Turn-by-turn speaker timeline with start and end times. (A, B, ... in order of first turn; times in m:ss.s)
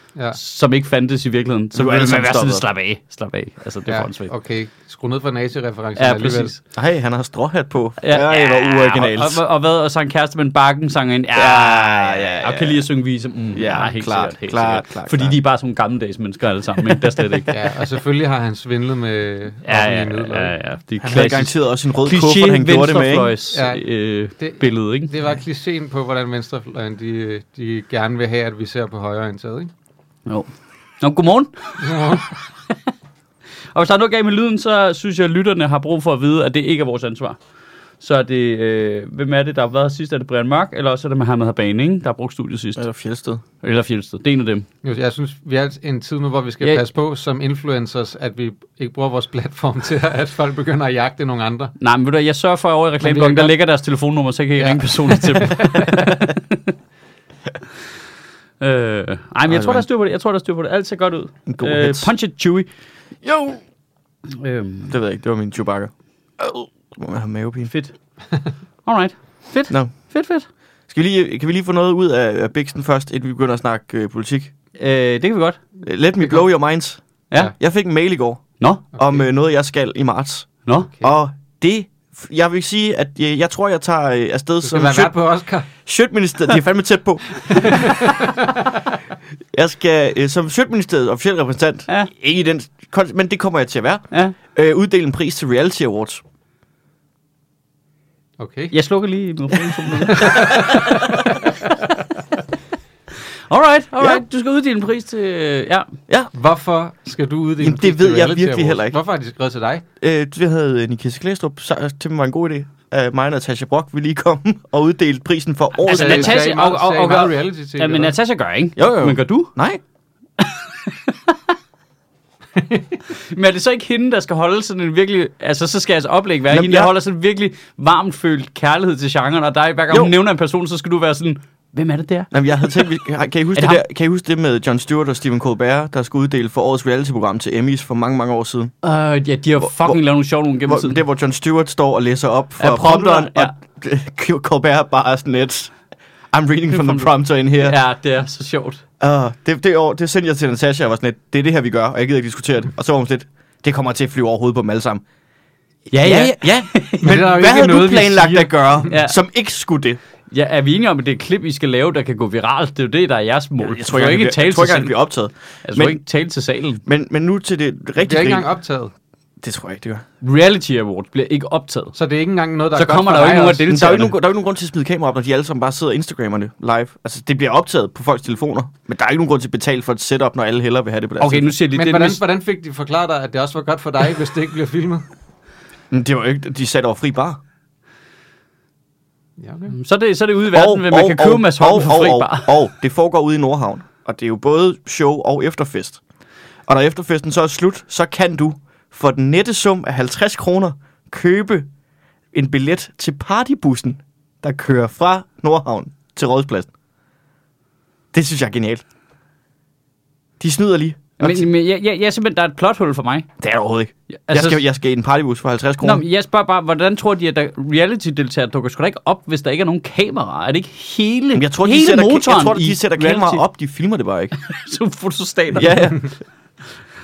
0:00.3-0:04.3 A
0:01.8-0:02.6 B
0:03.9-0:06.6 C
0:06.0-0:06.6 A
0:06.7-0:09.4 B
0:08.0-0:17.6 A
0:11.4-0:12.8 B
0:13.5-0:15.4 B
0:17.5-0:20.5 C
0:19.6-0:25.2 A
0:21.0-0:23.3 B
0:23.5-0:23.8 C
0:24.4-0:29.7 C
0:31.0-0:32.2 A
0:31.8-0:32.2 C
0:33.7-0:37.4 A
0:38.0-0:42.8 A
0:42.8-0:43.4 B
0:43.6-0:44.7 A
0:44.8-0:51.7 C
0:51.8-0:56.7 A
0:53.0-0:53.6 C
0:54.6-0:56.0 C
0:58.6-1:02.7 A
0:59.5-0:59.8 B
1:01.5-1:02.1 B
1:03.2-1:03.6 B
1:04.3-1:05.0 A
1:04.9-1:07.7 B
1:07.7-1:07.9 A
1:08.9-1:10.5 A
1:10.9-1:14.5 B
1:14.8-1:15.6 A
1:15.8-1:25.2 B
1:16.2-1:16.5 C
1:18.6-1:18.9 A
1:24.6-1:25.7 C
1:25.8-1:28.0 B
1:27.5-1:27.8 A
1:27.7-1:28.5 C
1:29.5-1:36.2 B
1:38.4-1:38.8 C
1:38.7-1:42.0 A
1:40.1-1:41.0 C
1:43.5-1:45.9 A
1:44.0-1:44.2 B
1:46.3-1:49.8 C
1:47.6-1:49.0 B
1:50.0-1:56.4 B
1:55.8-1:59.5 A
1:55.9-1:58.1 C
1:58.8-1:59.8 B
2:00.4-2:01.4 A
2:02.6-2:02.9 C
2:03.1-2:12.9 A
2:06.5-2:06.9 B
2:12.3-2:18.7 B
2:13.6-2:13.8 A
2:18.8-2:21.0 A
2:19.6-2:20.0 B
2:20.7-2:25.7 B
2:22.6-2:23.5 A
2:26.3-2:27.8 B
2:27.6-2:28.8 A
2:29.0-2:35.0 B
2:35.9-2:37.2 A
2:35.9-2:40.0 B
2:37.0-2:38.7 C
2:38.9-2:39.2 A
2:40.3-2:45.0 A
2:43.6-2:46.0 B
2:45.6-2:46.8 A
2:46.8-2:48.5 B
2:48.0-2:48.9 C
2:49.4-2:50.0 B
2:50.2-2:52.0 A
2:52.0-2:53.7 C
2:52.7-2:54.2 A
2:53.7-3:01.5 B
3:01.2-3:02.2 A
3:01.7-3:05.1 C
3:05.9-3:07.4 B
3:09.4-3:09.7 C
3:09.7-3:12.5 A
3:10.5-3:16.0 B
3:16.7-3:21.7 B
3:22.3-3:26.7 B
3:28.1-3:28.8 B
3:30.4-3:31.4 B
3:31.2-3:33.3 A
3:33.4-3:36.0 B
3:34.1-3:34.6 A
3:35.8-3:43.4 A
3:41.4-3:44.3 B
3:44.4-3:46.0 A
3:45.5-3:46.1 B